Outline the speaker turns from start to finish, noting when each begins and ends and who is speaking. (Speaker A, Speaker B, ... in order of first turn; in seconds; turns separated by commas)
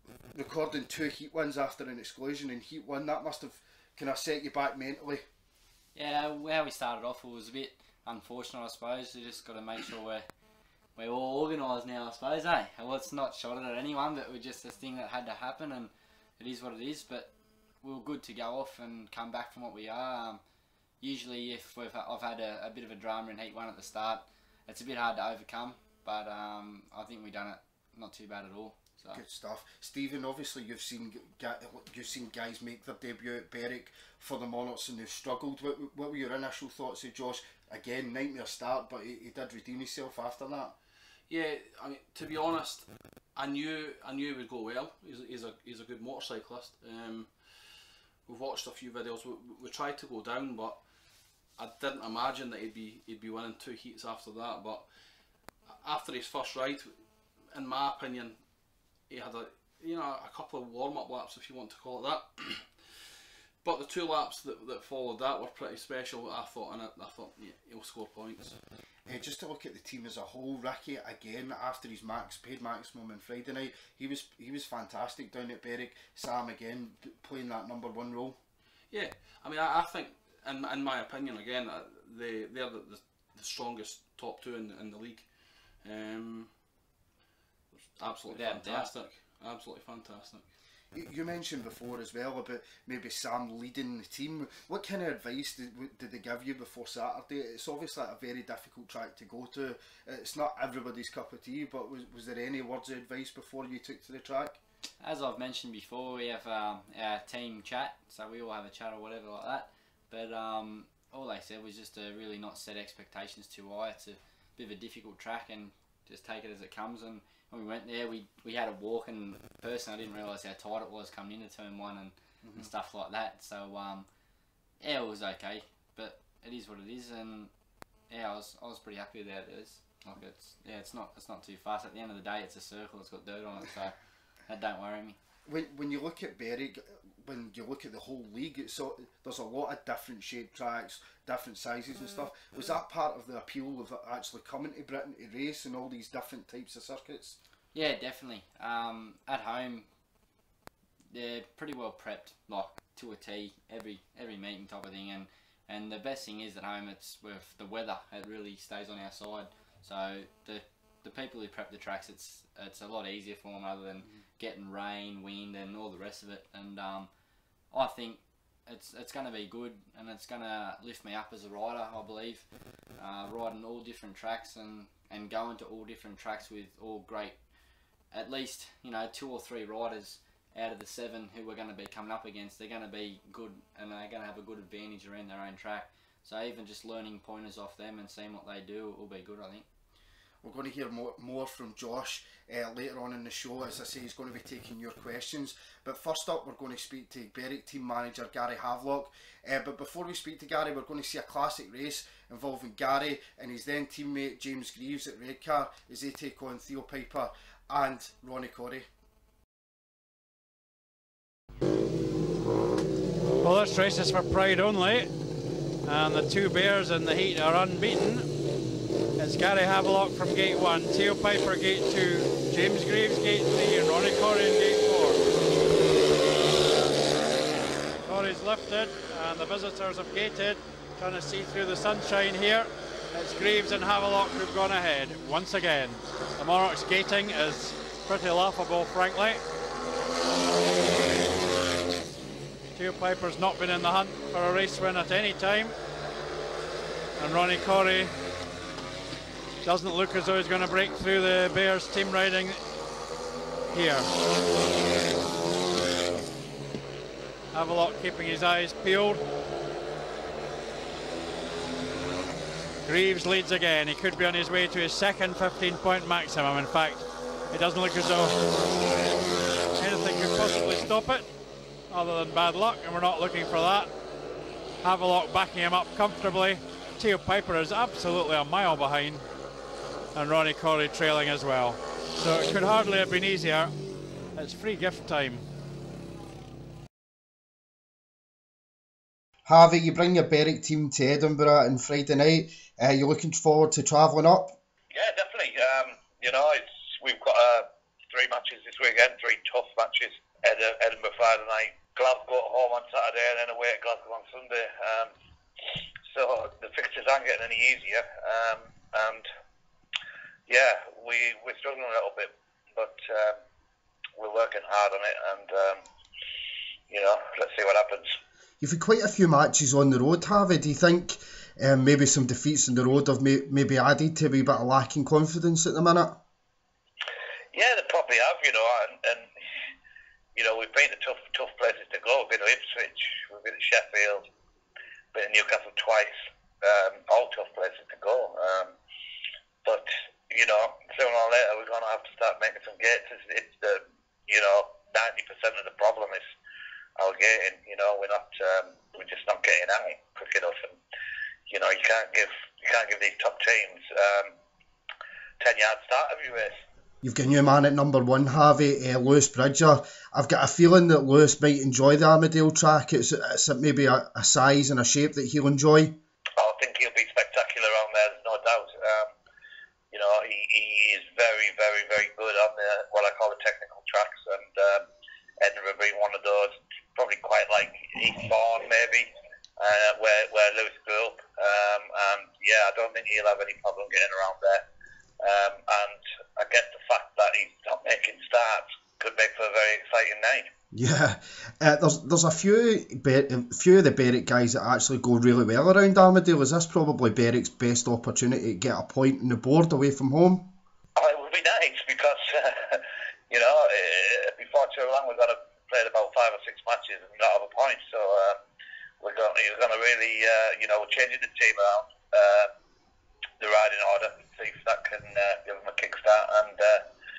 Speaker A: 0.3-5.2, Speaker B: 6.0-10.3, Speaker B: 11.0-20.4, Speaker B: 21.0-29.2, Speaker A: 29.1-40.8, Speaker C: 41.3-47.7, Speaker C: 48.3-50.8, Speaker C: 51.6-54.9, Speaker C: 55.7-56.9, Speaker C: 57.5-58.4, Speaker C: 59.1-68.6, Speaker A: 69.1-78.4, Speaker C: 78.9-86.5, Speaker C: 87.9-90.5, Speaker B: 88.3-88.9, Speaker A: 90.9-104.6, Speaker B: 105.0-124.1, Speaker A: 122.4-122.7, Speaker B: 124.8-127.5, Speaker B: 128.1-133.9, Speaker B: 134.5-135.2, Speaker A: 135.5-147.4, Speaker B: 147.7-149.9, Speaker B: 151.1-167.1, Speaker B: 167.7-172.5, Speaker B: 173.0-177.4, Speaker B: 178.1-189.7, Speaker A: 190.4-208.9, Speaker D: 213.4-215.1, Speaker D: 215.8-218.3, Speaker D: 219.2-225.2, Speaker D: 228.1-239.4, Speaker D: 242.8-245.7, Speaker D: 247.2-248.1, Speaker D: 249.6-252.6, Speaker D: 253.7-254.1, Speaker D: 257.5-259.2, Speaker D: 262.9-268.4, Speaker D: 269.8-271.3, Speaker D: 271.9-273.9, Speaker D: 274.8-279.2, Speaker D: 280.1-283.7, Speaker D: 284.4-285.4, Speaker A: 289.5-294.6, Speaker E: 294.9-305.1, Speaker E: 306.1-309.2, Speaker E: 310.5-313.4, Speaker E: 314.2-315.8, Speaker E: 316.9-318.1, Speaker A: 318.6-326.2, Speaker E: 327.5-329.3, Speaker E: 330.4-334.3, Speaker E: 335.1-338.7, Speaker E: 339.6-346.2, Speaker E: 347.0-350.8, Speaker E: 351.5-354.3, Speaker E: 355.4-356.6, Speaker A: 357.0-365.9, Speaker E: 366.4-369.1, Speaker E: 369.9-374.9, Speaker E: 375.4-384.6, Speaker E: 385.2-390.5, Speaker A: 390.7-400.5, Speaker E: 401.0-408.4, Speaker E: 409.0-412.5, Speaker E: 413.4-416.8